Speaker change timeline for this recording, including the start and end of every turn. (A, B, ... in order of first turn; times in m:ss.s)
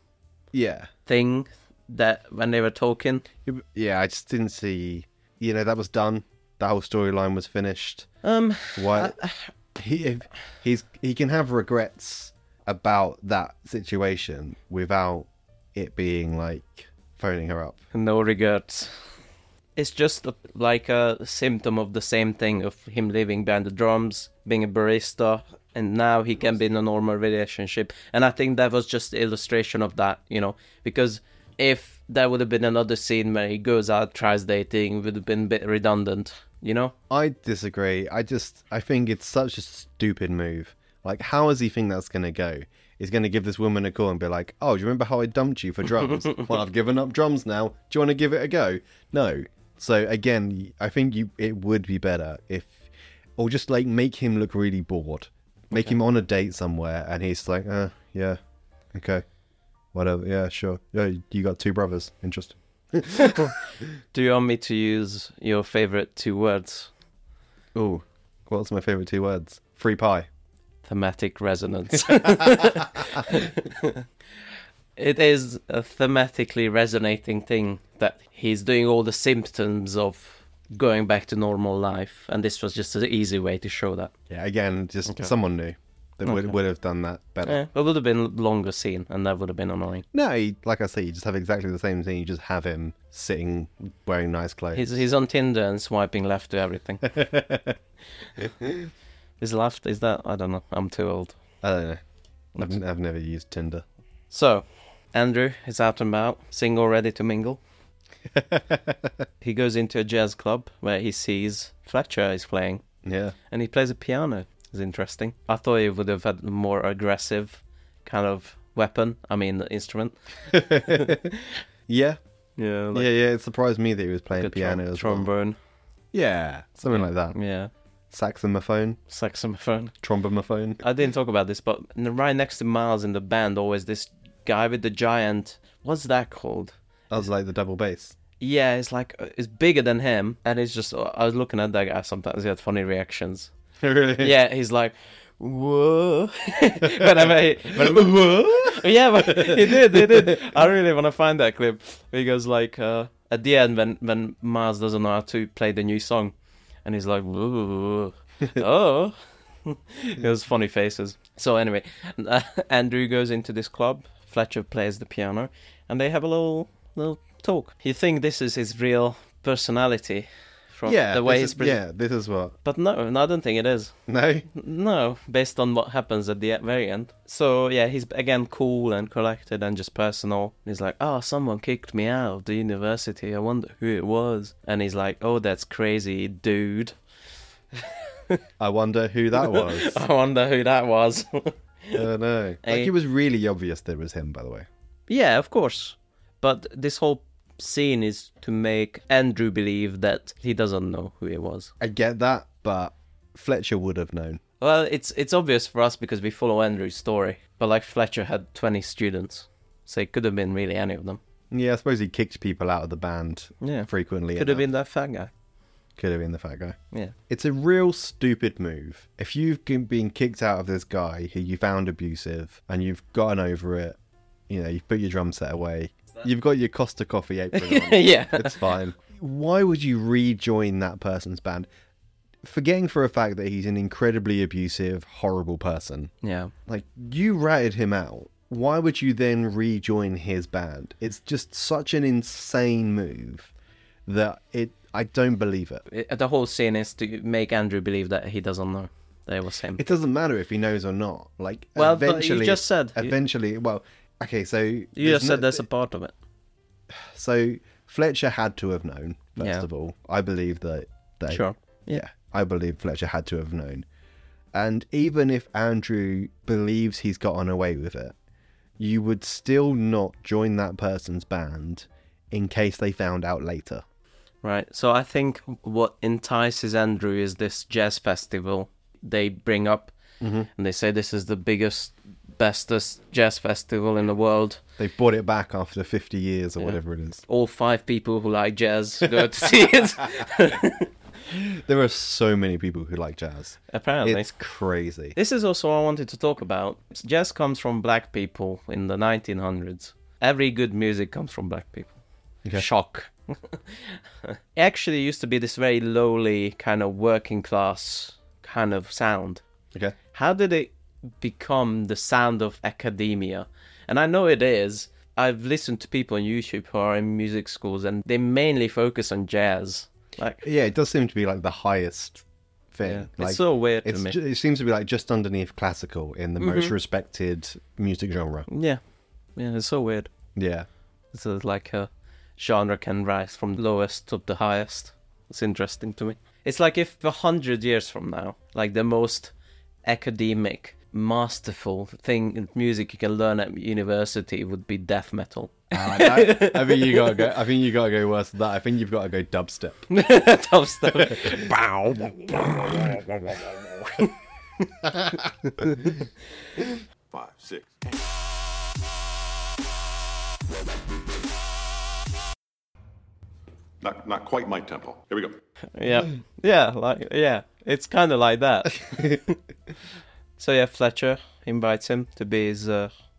0:00.5-0:00.9 A
0:01.0-0:03.2 B
0:03.4-0:08.1 A
0:08.2-0:09.4 B
0:08.8-0:09.1 A
0:09.7-0:17.8 A
0:17.9-0:19.0 B
0:19.8-0:36.9 B
0:37.1-0:58.4 A
0:58.9-0:59.2 A
0:59.9-1:03.5 A
1:03.1-1:03.5 B
1:04.1-1:06.9 B
1:07.7-1:10.3 A
1:10.8-1:14.0 B
1:15.0-1:24.1 B
1:24.3-1:27.6 A
1:25.0-1:25.3 B
1:26.2-1:26.6 B
1:27.4-1:30.0 B
1:30.1-1:34.8 A
1:34.7-1:37.1 B
1:37.0-1:37.8 A
1:38.4-1:38.9 A
1:39.4-1:41.4 B
1:41.6-1:42.0 A
1:42.6-1:43.8 A
1:44.3-1:47.6 B
1:48.3-1:49.1 A
1:49.4-1:52.8 B
1:53.0-1:53.3 A
1:53.5-2:01.2 B
2:00.5-2:01.3 A
2:01.9-2:02.2 A
2:02.6-2:03.1 B
2:02.9-2:05.3 A
2:04.3-2:05.6 B
2:06.1-2:07.4 A
2:07.3-2:07.7 B
2:08.1-2:09.0 A
2:09.1-2:09.9 B
2:10.0-2:10.8 A
2:10.8-2:16.7 B
2:17.1-2:18.2 A
2:18.4-2:23.5 B
2:23.8-2:24.3 A
2:24.2-2:36.3 B
2:26.9-2:30.4 A
2:36.8-2:51.8 B
2:50.8-2:52.5 A
2:52.6-2:53.9 B
2:54.1-2:54.5 A
2:54.5-3:06.9 B
3:08.6-3:10.0 A
3:09.4-3:12.0 B
3:11.9-3:14.7 A
3:12.6-3:12.9 B
3:15.1-3:21.7 B
3:21.8-3:24.4 A
3:24.6-3:31.2 B
3:31.5-3:34.6 A
3:33.6-3:35.3 B
3:36.0-3:36.8 A
3:37.3-3:44.0 A
3:44.5-3:51.7 A
3:47.5-3:48.6 B
3:52.4-3:56.1 A
3:56.2-3:56.5 B
3:56.7-4:03.5 A
4:04.0-4:05.8 A
4:05.9-4:09.9 B
4:09.8-4:15.6 A
4:11.8-4:13.1 B
4:15.0-4:16.1 B
4:16.9-4:23.8 A
4:19.4-4:19.6 B
4:21.3-4:22.0 B
4:24.5-4:28.1 A
4:28.8-4:33.8 A
4:34.4-4:39.9 B
4:40.2-4:40.5 A
4:40.6-4:44.6 B
4:44.8-4:47.2 A
4:46.6-4:50.9 B
4:51.3-4:55.2 A
4:53.7-4:54.3 B
4:55.1-5:01.9 B
5:02.5-5:03.6 B
5:04.6-5:09.4 B
5:10.1-5:20.4 B
5:20.4-5:28.5 A
5:22.8-5:24.2 B
5:26.4-5:26.7 B
5:28.5-5:28.8 B
5:29.4-5:30.1 B
5:30.4-5:30.7 A
5:31.1-5:39.3 B
5:39.8-5:47.3 B
5:45.7-5:49.9 A
5:49.9-5:51.5 B
5:50.9-5:53.5 A
5:55.6-5:55.9 B
5:57.1-5:57.8 C
6:03.8-6:05.4 C
6:05.8-6:09.4 B
6:08.8-6:09.2 A
6:10.4-6:12.9 B